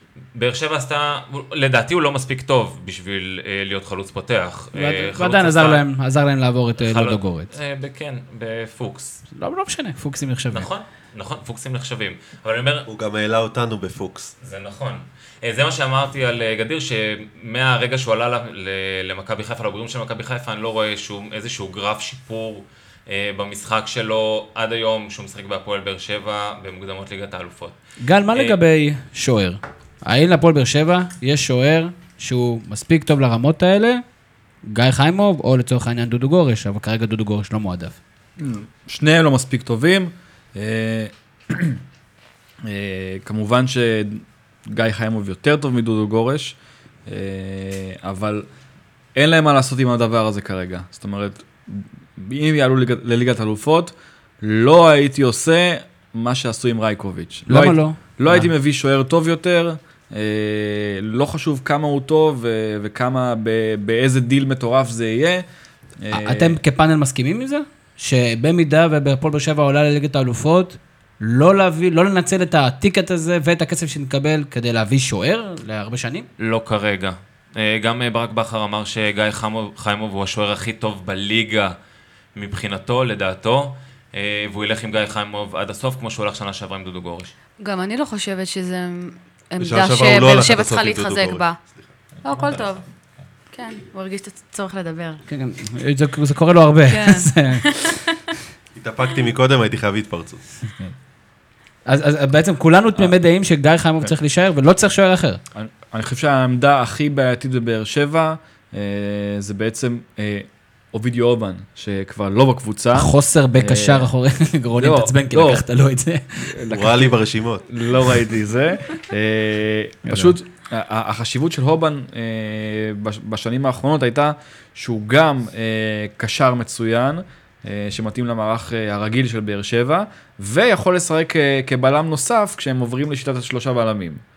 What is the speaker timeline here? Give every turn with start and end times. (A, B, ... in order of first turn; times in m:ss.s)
0:00.4-0:05.8 A
0:04.8-0:07.5 B
0:06.8-0:09.2 A
0:09.4-0:10.7 B
0:10.5-0:12.9 A
0:12.9-0:14.3 C
0:14.4-0:27.8 A
0:28.0-0:34.0 B
0:34.7-0:38.0 B
0:38.4-0:41.8 D
0:42.7-0:46.6 D
0:47.1-0:48.5 D
0:49.2-1:05.4 D
0:57.5-0:58.5 B
1:06.0-1:06.6 D
1:06.1-1:16.3 B
1:16.4-1:21.8 A
1:22.4-1:27.4 A
1:27.6-1:31.6 E
1:29.6-1:31.7 C
1:32.2-1:32.8 E
1:33.5-1:35.2 E
1:35.3-1:37.9 B
1:36.9-1:38.0 E
1:38.8-1:40.4 C
1:41.9-1:45.4 B
1:45.5-1:54.1 D
1:52.9-1:56.6 B
1:54.8-1:55.6 D
1:56.5-1:57.1 D
1:56.7-1:57.7 C
1:57.7-2:14.2 D
2:00.0-2:00.4 B